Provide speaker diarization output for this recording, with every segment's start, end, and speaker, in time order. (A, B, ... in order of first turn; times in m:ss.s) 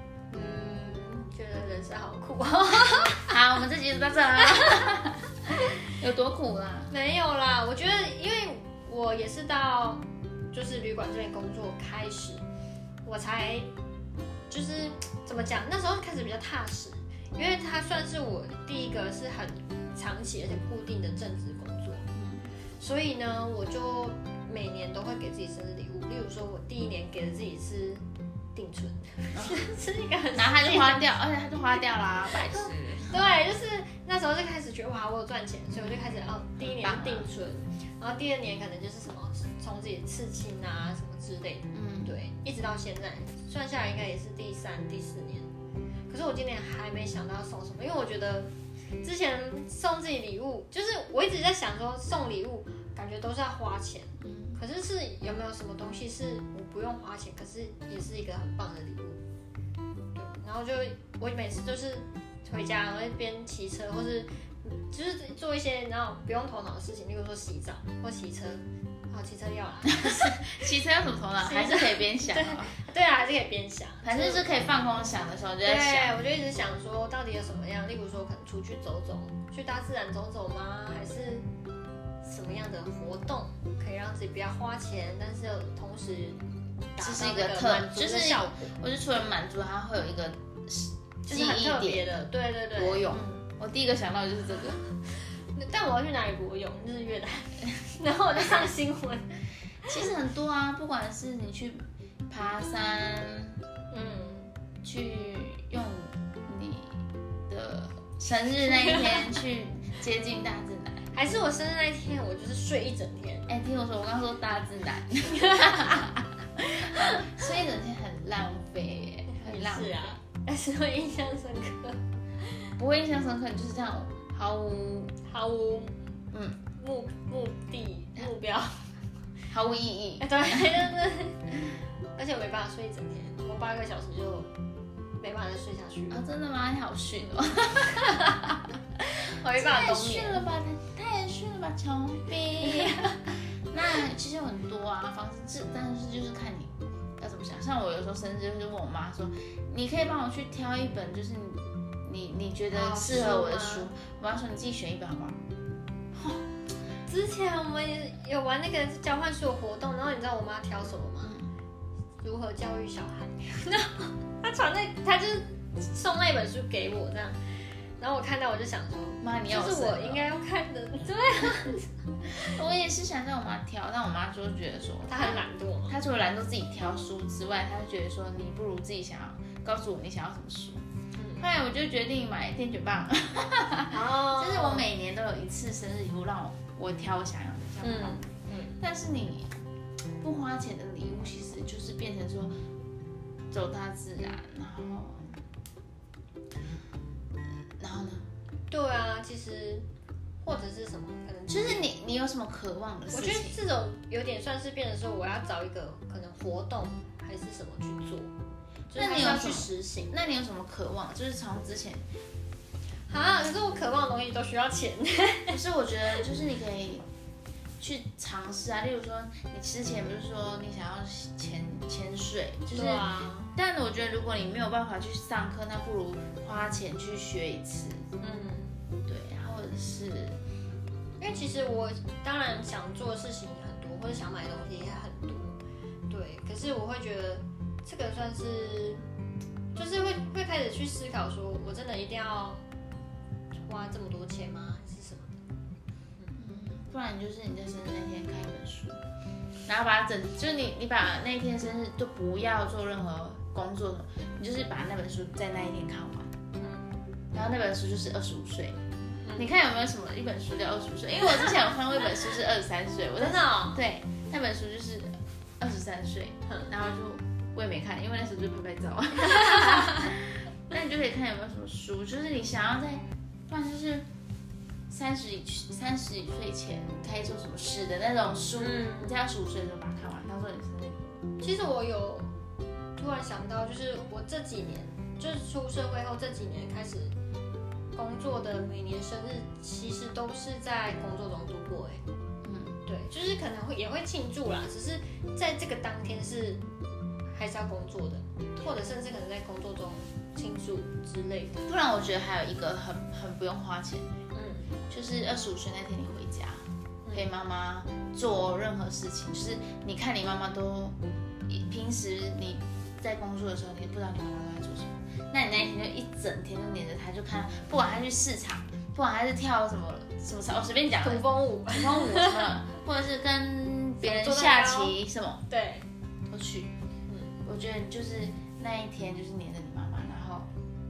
0:00.3-0:03.4 A
0:03.3-0:05.3 B
0:04.4-0:05.0 A
0:05.9-0:06.9 B
0:06.9-0:12.4 A
0:13.0-0:13.7 A
0:14.5-0:22.0 A
0:22.1-0:22.5 B
0:22.8-0:28.0 A
0:28.5-0:31.2 A
0:29.3-0:29.7 B
0:30.3-0:33.2 B
0:32.3-0:45.5 A
0:35.7-0:36.0 B
0:36.6-0:37.3 B
0:41.7-0:42.2 B
0:46.1-0:59.2 A
0:54.2-0:54.6 B
1:00.2-1:10.5 A
1:10.0-1:12.8 B
1:11.4-1:14.5 A
1:14.0-1:16.2 B
1:15.6-1:21.5 A
1:22.2-1:28.8 A
1:27.0-1:34.9 B
1:31.3-1:33.2 A
1:35.1-1:40.0 A
1:39.9-1:43.6 B
1:43.9-1:44.5 A
1:44.8-1:51.1 B
1:48.5-1:49.4 A
1:51.1-1:53.5 A
1:53.5-2:00.2 B
1:55.2-1:56.0 A
1:57.1-1:57.4 A
1:59.3-2:02.5 A
2:02.8-2:05.2 B
2:05.3-2:06.0 A
2:06.3-2:06.6 B
2:06.8-2:09.0 A
2:09.5-2:10.9 B
2:10.2-2:14.5 A
2:15.2-2:16.2 A
2:16.1-2:18.4 B
2:17.9-2:18.4 A
2:19.3-2:20.4 A
2:19.5-2:35.4 B
2:22.6-2:23.2 A
2:32.7-2:33.9 A
2:36.1-2:36.4 B
2:37.1-2:41.3 A
2:41.2-2:41.5 B
2:42.2-2:47.4 A
2:48.0-2:52.6 A
2:49.2-2:50.2 B
2:52.4-3:00.8 B
2:55.1-2:56.0 A
3:01.2-3:01.5 A
3:01.4-3:09.5 B
3:03.9-3:04.9 A
3:07.8-3:08.8 A
3:10.2-3:12.6 B
3:13.5-3:15.3 B
3:17.8-3:18.3 B
3:18.7-3:19.9 A
3:20.4-3:21.8 A
3:21.5-3:23.6 B
3:23.1-3:28.3 A
3:28.9-3:30.2 A
3:28.9-3:32.0 B
3:33.1-3:35.6 A
3:35.5-3:37.1 B
3:37.8-3:48.1 B
3:42.7-3:43.5 A
3:48.2-3:48.8 A
3:49.1-3:50.4 B
3:51.2-3:55.6 A
3:56.1-3:59.1 A
3:59.8-4:02.6 A
4:03.6-4:05.4 A
4:06.4-4:09.0 B
4:09.7-4:16.3 B
4:16.6-4:17.0 A
4:17.3-4:18.8 B
4:19.2-4:19.5 A
4:19.4-4:34.1 B
4:23.2-4:23.8 A
4:29.6-4:30.0 A
4:34.9-4:41.2 B
4:38.6-4:39.2 A
4:41.4-4:42.3 A
4:43.0-4:47.2 A
4:47.9-4:52.0 A
4:52.4-4:52.8 B
4:52.9-4:56.6 A
4:57.4-5:01.6 A
5:01.6-5:04.2 B
5:04.3-5:04.7 A
5:04.9-5:25.4 B
5:21.0-5:22.4 A
5:24.0-5:25.0 A
5:25.5-5:25.9 A
5:26.3-5:26.7 B
5:27.1-5:27.4 A
5:27.4-5:30.5 B